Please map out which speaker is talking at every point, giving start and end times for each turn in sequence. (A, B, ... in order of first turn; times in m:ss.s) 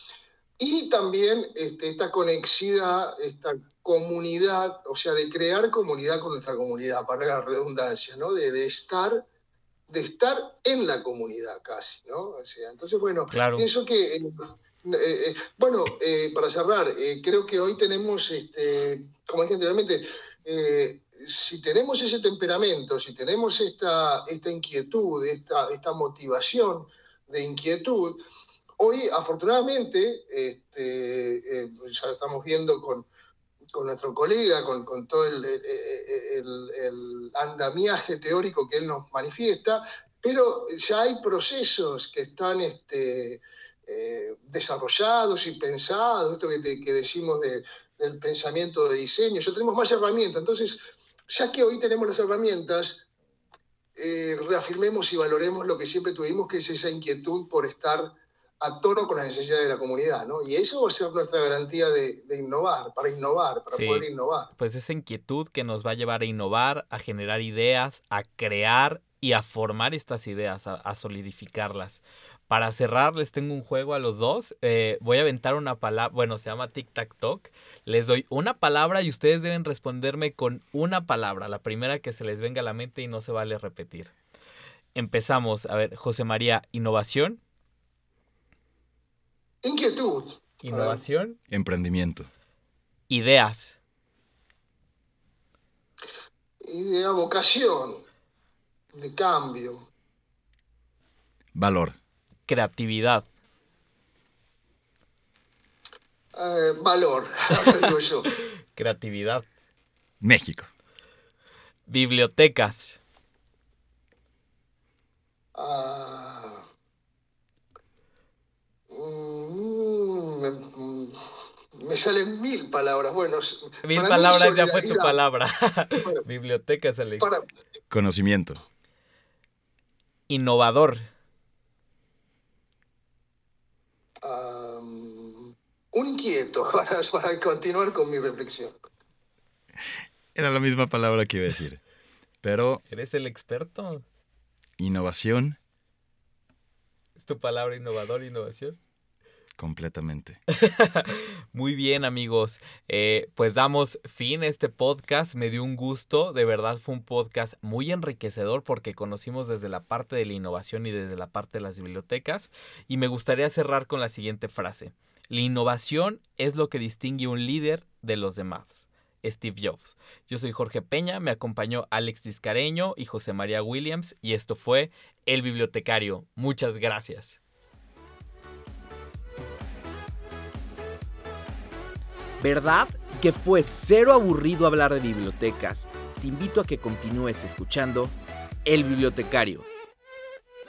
0:00.6-0:09.2 A
0:09.9-0:28.2 A
0:13.3-0:13.7 B
0:28.8-0:33.1 A
0:33.7-0:53.0 A
0:54.0-1:04.5 A
1:03.7-1:24.1 B
1:24.9-1:27.4 B
1:29.6-1:31.0 A
1:30.6-1:31.4 B
1:31.5-1:32.3 C
1:33.1-1:33.8 B
1:36.6-1:38.0 A
1:38.9-1:39.9 A
1:41.5-1:42.0 C
1:42.5-1:43.3 B
1:46.3-1:48.3 A
1:48.8-1:49.4 B
1:50.2-1:50.7 C
1:51.9-1:53.0 B
1:55.5-1:56.7 A
1:58.9-2:01.2 A
2:01.7-2:05.2 A
2:03.8-2:07.4 B
2:07.2-2:07.4 A
2:07.9-2:08.6 C
2:10.3-2:11.1 B
2:14.2-2:18.8 A
2:20.4-2:21.8 C
2:22.4-2:22.8 C
2:22.9-2:24.0 B
2:24.8-2:25.6 C
2:27.2-2:28.8 B
2:29.6-2:30.4 C
2:30.5-2:57.4 B
3:02.4-3:09.7 B